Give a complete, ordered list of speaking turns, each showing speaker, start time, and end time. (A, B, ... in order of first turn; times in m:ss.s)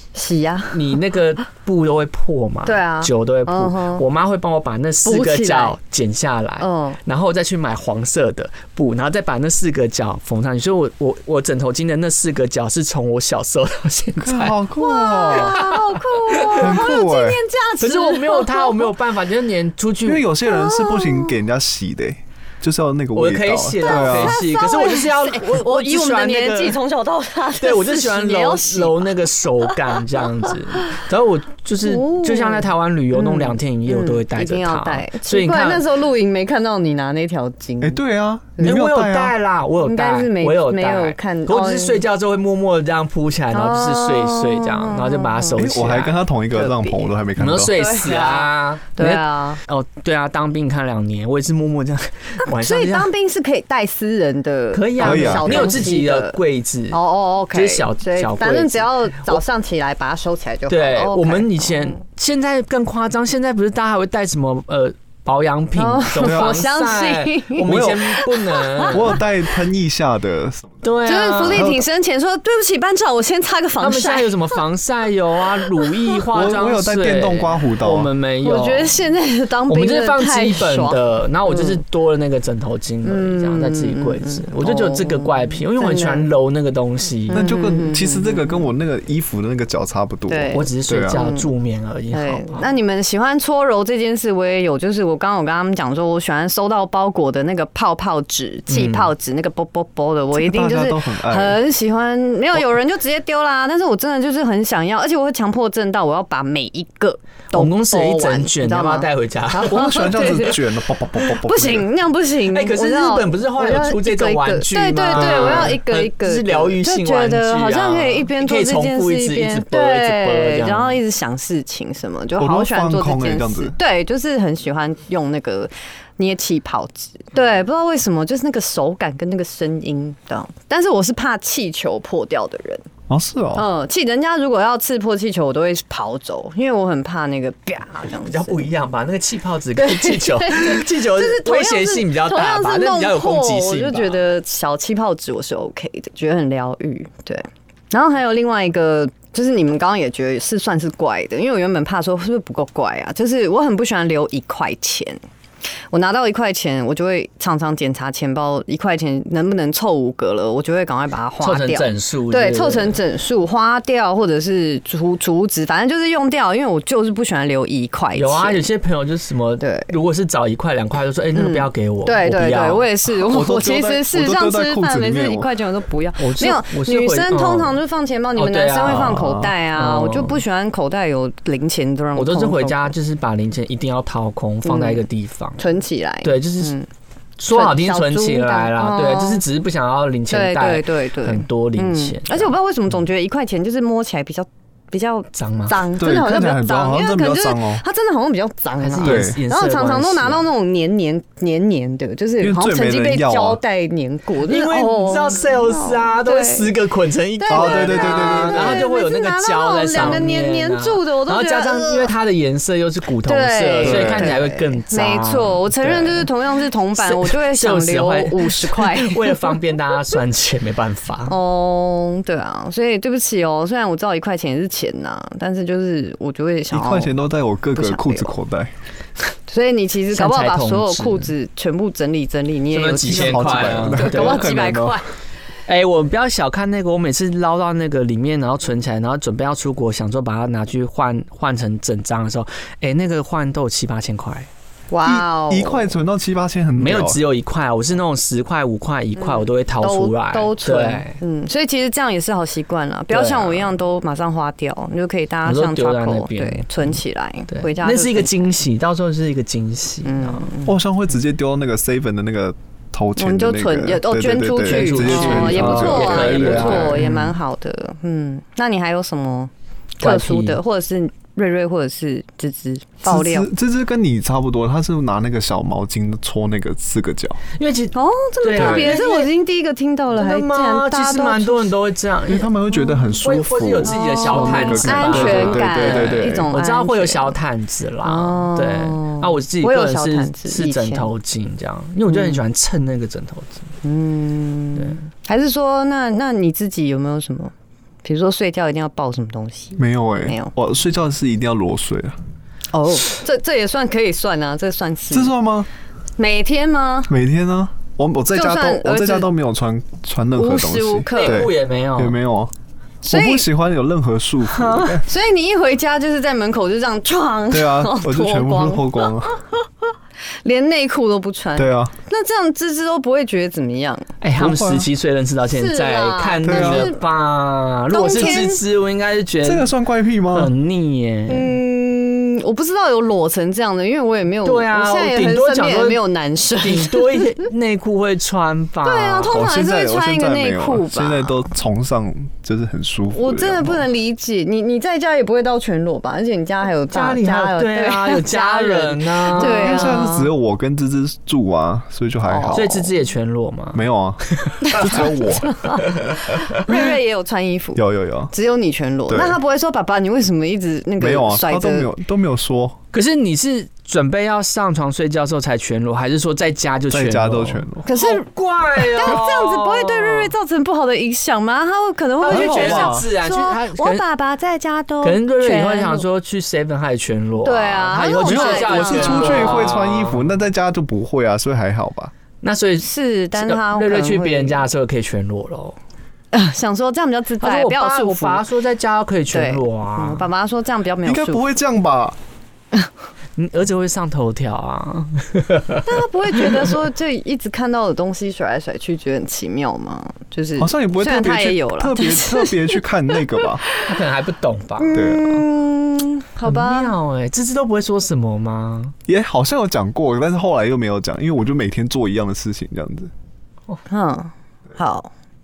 0:00.1-0:00.8 A
0:00.7-0:14.6 B
0:02.6-0:04.0 A
0:05.0-0:05.8 A
0:06.6-0:07.0 A
0:14.2-0:15.6 C
0:14.8-0:18.9 A
0:15.3-0:16.8 B
0:16.6-0:17.4 C
0:17.8-0:20.2 B
0:20.0-0:24.4 C
0:20.5-0:21.3 A
0:23.1-0:26.8 B
0:23.8-0:29.1 A
0:27.6-0:35.8 B
0:29.7-0:30.5 A
0:31.8-0:38.0 A
0:37.8-0:39.3 C
0:38.6-0:46.2 B
0:39.8-0:42.0 A
0:43.5-0:45.6 A
0:45.6-0:47.7 C
0:46.5-0:47.1 A
0:47.4-0:53.1 B
0:47.7-0:49.6 A
0:52.4-0:56.4 A
0:54.7-0:57.0 B
0:55.0-0:55.8 C
0:56.9-1:02.0 A
0:57.5-0:59.4 B
1:00.7-1:09.2 B
1:05.8-1:09.2 A
1:06.2-1:06.6 C
1:07.6-1:08.1 C
1:08.9-1:10.9 C
1:10.8-1:11.7 B
1:11.0-1:14.6 A
1:11.5-1:11.8 C
1:13.8-1:19.0 B
1:15.8-1:16.1 A
1:16.3-1:18.1 C
1:18.4-1:21.8 A
1:19.7-1:27.4 B
1:23.0-1:26.3 A
1:27.3-1:28.6 A
1:27.3-1:31.2 C
1:30.3-1:31.5 A
1:30.5-1:32.7 B
1:32.1-1:50.6 A
1:38.7-1:39.1 B
1:40.3-1:41.6 C
1:47.5-1:49.9 B
1:49.6-1:51.9 C
1:51.2-2:12.8 A
1:52.5-2:01.0 B
1:55.1-1:55.8 C
2:02.4-2:03.8 C
2:13.1-2:13.7 C
2:13.5-2:18.6 A
2:18.2-2:24.2 B
2:19.8-2:35.2 A
2:35.9-2:48.6 A
2:41.4-2:43.0 B
2:48.1-2:52.8 B
2:49.6-2:49.9 A
2:51.3-3:02.9 A
2:53.2-2:55.5 C
2:56.2-2:57.8 B
2:58.4-3:00.4 B
2:59.0-2:59.2 C
3:02.2-3:05.6 B
3:04.6-3:05.0 A
3:05.6-3:06.9 A
3:06.2-3:06.7 B
3:07.4-3:12.5 B
3:07.5-3:09.4 A
3:10.3-3:26.7 A
3:15.3-3:15.8 B
3:16.0-3:17.8 C
3:18.8-3:20.5 B
3:19.0-3:19.4 C
3:22.4-3:23.6 C
3:24.4-3:36.3 B
3:27.4-3:32.1 A
3:27.5-3:28.8 C
3:33.2-3:39.5 A
3:33.8-3:34.4 C
3:37.0-3:41.4 B
3:41.3-3:47.1 A
3:46.7-3:48.7 C
3:47.7-3:48.4 A
3:49.5-3:55.0 A
3:50.1-3:51.3 B
3:52.7-3:54.5 B
3:53.1-3:55.0 C
3:55.7-4:04.5 B
4:04.9-4:05.9 A
4:05.0-4:07.2 C
4:06.8-4:11.2 B
4:09.2-4:18.4 A
4:13.1-4:13.7 B
4:15.4-4:16.7 B
4:17.5-4:20.5 B
4:20.0-4:20.8 A
4:20.6-4:27.0 C
4:23.2-4:33.5 A
4:24.6-4:27.3 B
4:30.0-4:30.6 B
4:33.0-4:37.4 C
4:37.6-4:39.3 B
4:37.9-4:41.7 A
4:38.5-4:39.0 C
4:40.1-4:42.5 B
4:42.3-4:46.5 C
4:43.2-4:53.7 B
4:43.8-4:47.4 A
4:48.0-4:51.1 A
4:52.1-4:52.4 A
4:53.8-4:57.5 A
4:54.8-4:55.0 B
4:58.0-5:00.5 A
4:59.8-5:02.2 C
5:02.7-5:05.3 A
5:05.1-5:05.7 C
5:06.2-5:07.1 A
5:07.1-5:12.5 C
5:08.3-5:09.3 A
5:10.4-5:11.5 A
5:11.1-5:12.2 B
5:13.0-5:13.4 A
5:13.0-5:15.0 C
5:14.5-5:15.0 B
5:15.0-5:19.1 A
5:17.5-5:19.4 C
5:20.4-5:24.1 A
5:21.6-5:21.9 C
5:24.2-5:29.7 B
5:24.4-5:24.9 C
5:25.5-5:27.0 A
5:26.4-5:26.9 C
5:27.9-5:28.6 A
5:28.1-5:28.4 C
5:29.4-5:30.5 C
5:30.3-5:31.6 B
5:31.3-5:37.3 A
5:34.4-5:36.0 B
5:36.6-5:39.4 B
5:38.8-5:41.4 A
5:39.3-5:43.8 C
5:43.1-5:50.3 A
5:46.9-5:49.8 B
5:49.4-5:52.8 C
5:52.2-5:52.9 A
5:52.5-5:55.0 B
5:53.7-5:55.6 C
5:54.6-6:01.9 A
5:57.8-5:58.3 C
5:59.1-5:59.4 C
6:01.0-6:02.8 C
6:02.9-6:10.3 B
6:06.9-6:07.8 C
6:07.8-6:08.2 A
6:08.9-6:16.0 A
6:12.2-6:14.0 B
6:12.3-6:13.0 C
6:15.0-6:20.3 B
6:17.4-6:19.7 A
6:18.2-6:22.1 C
6:22.4-6:25.8 B
6:22.8-6:24.6 A
6:26.3-6:28.4 A
6:27.4-6:30.3 B
6:29.3-6:31.4 A
6:31.0-6:32.2 C
6:33.4-6:35.9 B
6:35.8-6:43.9 A
6:36.4-6:36.7 B
6:40.6-6:43.6 C
6:43.8-6:45.0 B
6:44.8-6:46.9 A
6:44.9-6:45.4 C
6:46.4-6:48.9 B
6:49.1-6:53.1 C
6:53.9-6:55.1 A